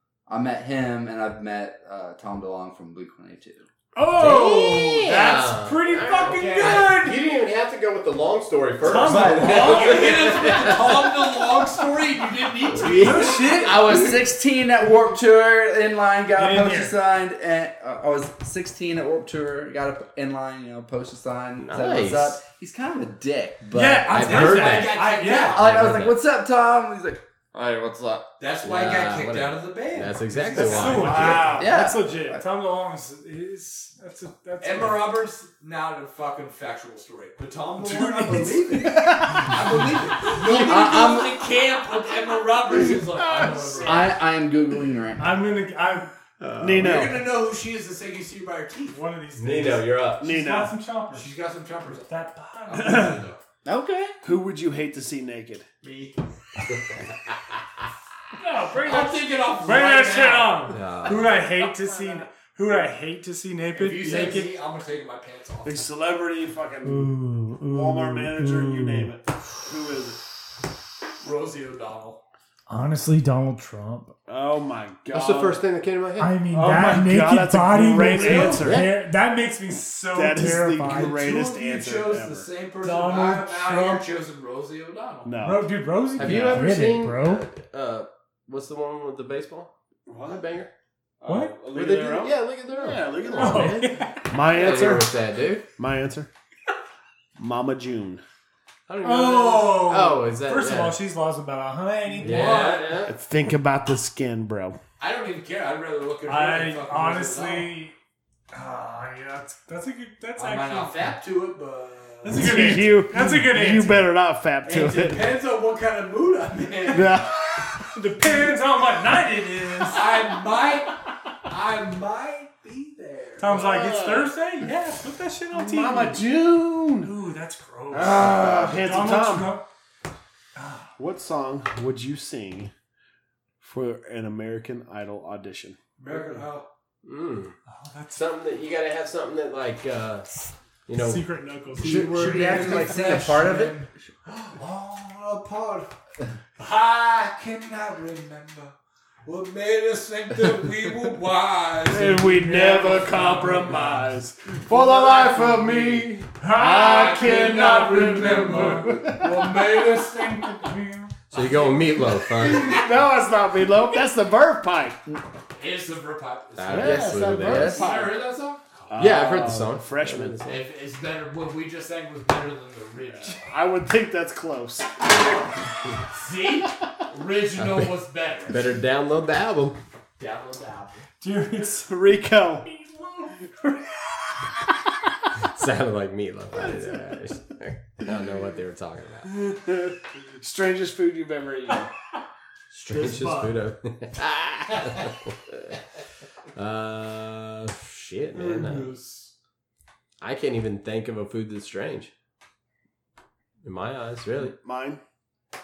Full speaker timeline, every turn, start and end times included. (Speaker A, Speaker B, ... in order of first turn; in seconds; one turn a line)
Speaker A: 0.3-3.7
Speaker B: 4.0-7.2
Speaker C: 4.2-11.3
Speaker D: 6.2-6.9
Speaker B: 8.8-10.3
Speaker A: 8.9-9.9
Speaker D: 9.4-14.1
Speaker C: 12.7-13.6
Speaker B: 13.0-14.1
Speaker A: 13.3-24.6
Speaker B: 16.3-16.9
Speaker C: 21.6-22.4
Speaker B: 23.7-25.7
Speaker D: 24.0-25.8
Speaker C: 24.1-25.0
Speaker A: 25.3-28.3
Speaker C: 25.6-26.2
Speaker D: 28.4-31.7
Speaker C: 28.6-31.5
Speaker B: 30.6-35.1
Speaker E: 30.8-31.7
Speaker A: 31.3-32.4
Speaker D: 34.6-44.2
Speaker B: 37.8-39.6
Speaker A: 38.7-39.6
Speaker A: 40.2-41.4
Speaker E: 43.4-43.8
Speaker A: 43.8-45.3
Speaker B: 45.2-46.1
Speaker C: 46.4-47.2
Speaker E: 46.6-47.3
Speaker D: 46.8-49.0
Speaker B: 48.9-51.4
Speaker C: 49.4-50.2
Speaker E: 50.2-50.8
Speaker D: 51.1-53.4
Speaker B: 52.1-53.2
Speaker E: 52.8-53.1
Speaker A: 53.6-54.2
Speaker E: 54.2-55.6
Speaker D: 55.8-56.2
Speaker B: 58.4-64.6
Speaker D: 58.8-62.3
Speaker C: 60.7-61.3
Speaker D: 63.7-65.9
Speaker E: 64.0-64.4
Speaker E: 65.7-67.2
Speaker B: 66.8-69.1
Speaker E: 67.7-70.2
Speaker D: 71.2-72.2
Speaker B: 72.7-74.2
Speaker E: 74.3-75.6
Speaker C: 75.1-76.4
Speaker B: 76.2-81.3
Speaker E: 76.5-78.9
Speaker D: 78.0-78.7
Speaker C: 78.6-78.9
Speaker E: 80.1-82.5
Speaker D: 80.9-85.3
Speaker B: 82.8-84.1
Speaker E: 85.2-85.7
Speaker B: 85.4-87.5
Speaker C: 86.2-89.7
Speaker E: 90.1-90.5
Speaker C: 90.2-90.7
Speaker E: 91.2-95.2
Speaker B: 91.2-91.5
Speaker C: 91.7-95.6
Speaker B: 93.3-94.4
Speaker D: 94.5-95.0
Speaker E: 95.8-96.3
Speaker E: 97.4-98.2
Speaker C: 98.9-101.0
Speaker B: 99.0-102.5
Speaker C: 102.2-103.1
Speaker D: 102.2-103.1
Speaker E: 102.3-104.8
Speaker D: 105.0-107.8
Speaker B: 106.3-108.0
Speaker B: 108.5-111.1
Speaker D: 110.4-112.8
Speaker B: 112.2-114.1
Speaker E: 112.3-115.3
Speaker D: 114.6-117.1
Speaker E: 116.9-117.9
Speaker B: 117.8-120.4
Speaker D: 119.9-120.9
Speaker D: 121.5-123.7
Speaker B: 123.4-126.4
Speaker E: 123.5-124.3
Speaker E: 125.5-127.1
Speaker B: 127.0-129.7
Speaker E: 127.9-129.6
Speaker B: 130.6-130.9
Speaker E: 131.0-132.7
Speaker E: 133.6-135.8
Speaker D: 136.0-136.7
Speaker B: 136.1-136.4
Speaker C: 137.0-137.6
Speaker B: 137.7-138.3
Speaker C: 138.1-141.3
Speaker B: 140.9-143.2
Speaker D: 141.8-145.9
Speaker A: 141.8-143.9
Speaker D: 146.6-152.2
Speaker E: 151.9-159.6
Speaker B: 152.0-154.1
Speaker D: 154.7-160.7
Speaker B: 156.4-159.2
Speaker B: 160.1-161.2
Speaker D: 161.3-162.0
Speaker C: 161.3-162.8
Speaker E: 162.3-165.0
Speaker D: 165.6-168.7
Speaker C: 166.6-167.8
Speaker E: 166.7-168.1
Speaker A: 167.4-168.0
Speaker E: 168.9-170.4
Speaker C: 169.0-170.6
Speaker D: 170.4-173.4
Speaker E: 173.1-174.9
Speaker D: 176.2-178.6
Speaker C: 177.6-177.9
Speaker C: 178.4-179.8
Speaker D: 180.2-181.0
Speaker B: 181.2-183.4
Speaker E: 181.9-182.7
Speaker C: 185.4-189.3
Speaker E: 189.3-191.9
Speaker C: 192.7-195.8
Speaker B: 192.9-193.5
Speaker C: 196.6-198.9
Speaker E: 198.4-199.0
Speaker C: 200.2-202.1
Speaker C: 203.6-204.6
Speaker E: 204.6-205.0